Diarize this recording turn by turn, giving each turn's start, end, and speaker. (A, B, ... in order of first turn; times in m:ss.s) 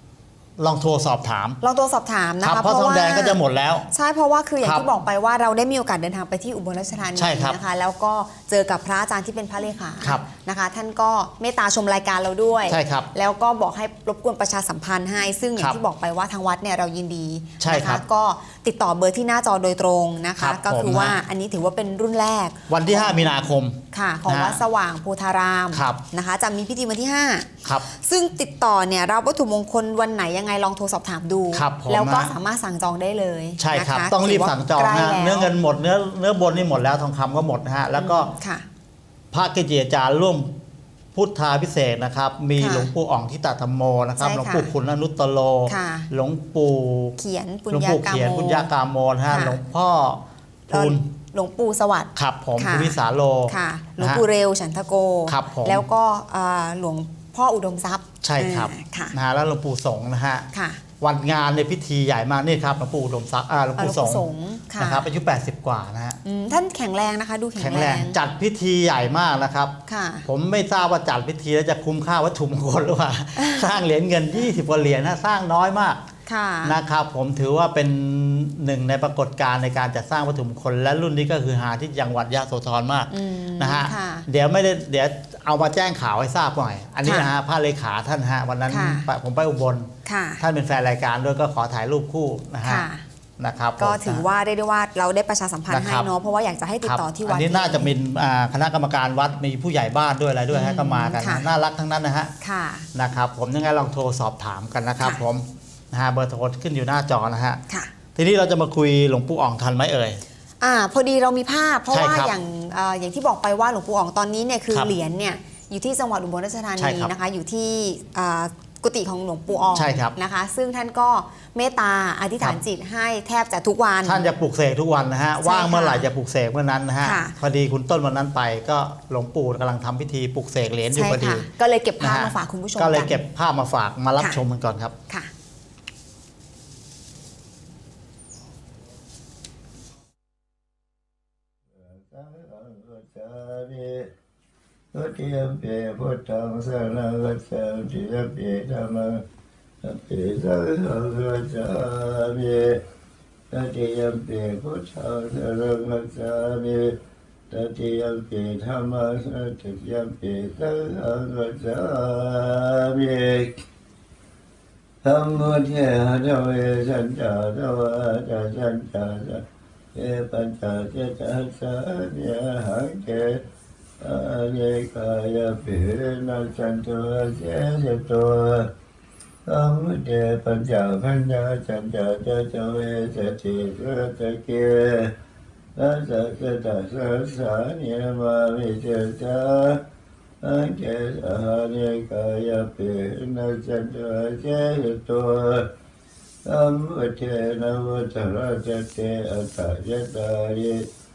0:00.6-0:01.6 A
0:01.6-0:03.4 B
0:02.4-0:03.9 A
0:03.9-0:23.3 B
0:04.6-0:04.9 A
0:07.2-0:07.6 A
0:12.7-0:13.1 A
0:17.6-0:18.0 A
0:20.4-0:21.2 A
0:22.7-0:24.6 A
0:23.9-0:35.5 B
0:25.7-0:26.0 A
0:31.5-0:32.3 A
0:33.6-0:38.3 A
0:38.0-0:38.6 B
0:39.3-0:40.5 A
0:41.1-0:47.2 A
0:42.6-0:42.9 B
0:44.2-0:44.7 B
0:45.7-0:46.1 B
0:47.2-0:48.7 B
0:47.7-0:51.0 A
0:49.3-0:49.6 B
0:50.7-0:59.1 B
0:52.2-0:54.2 A
0:55.3-0:55.8 A
0:58.2-1:00.5 A
1:00.5-1:00.8 B
1:01.0-1:06.2 A
1:03.8-1:05.1 B
1:06.2-1:08.2 B
1:07.6-1:09.7 A
1:09.9-1:10.3 B
1:10.2-1:16.0 A
1:16.2-1:16.8 B
1:16.6-1:32.9 A
1:23.1-1:24.2 B
1:27.0-1:27.3 B
1:28.7-1:29.1 B
1:30.0-1:30.4 B
1:32.6-1:33.0 B
1:33.4-1:34.2 A
1:33.8-1:37.9 B
1:35.7-1:36.1 A
1:36.8-1:42.3 A
1:40.5-1:41.5 B
1:42.4-1:42.9 B
1:42.9-1:47.6 A
1:48.2-1:50.2 A
1:50.6-2:04.2 B
1:51.9-1:52.3 A
1:56.8-1:57.1 A
1:59.7-2:00.1 A
2:04.0-2:11.5 A
2:05.4-2:06.1 B
2:07.0-2:07.3 B
2:10.9-2:13.2 B
2:12.0-2:14.9 A
2:21.8-2:24.1 C
2:24.9-2:29.2 C
2:29.8-2:32.8 C
2:33.5-2:37.0 C
2:37.5-2:43.5 C
2:45.0-2:53.4 C
2:54.0-2:58.7 C
2:59.5-3:05.1 C
3:05.8-3:09.8 C
3:10.4-3:15.7 C
3:16.4-3:20.9 C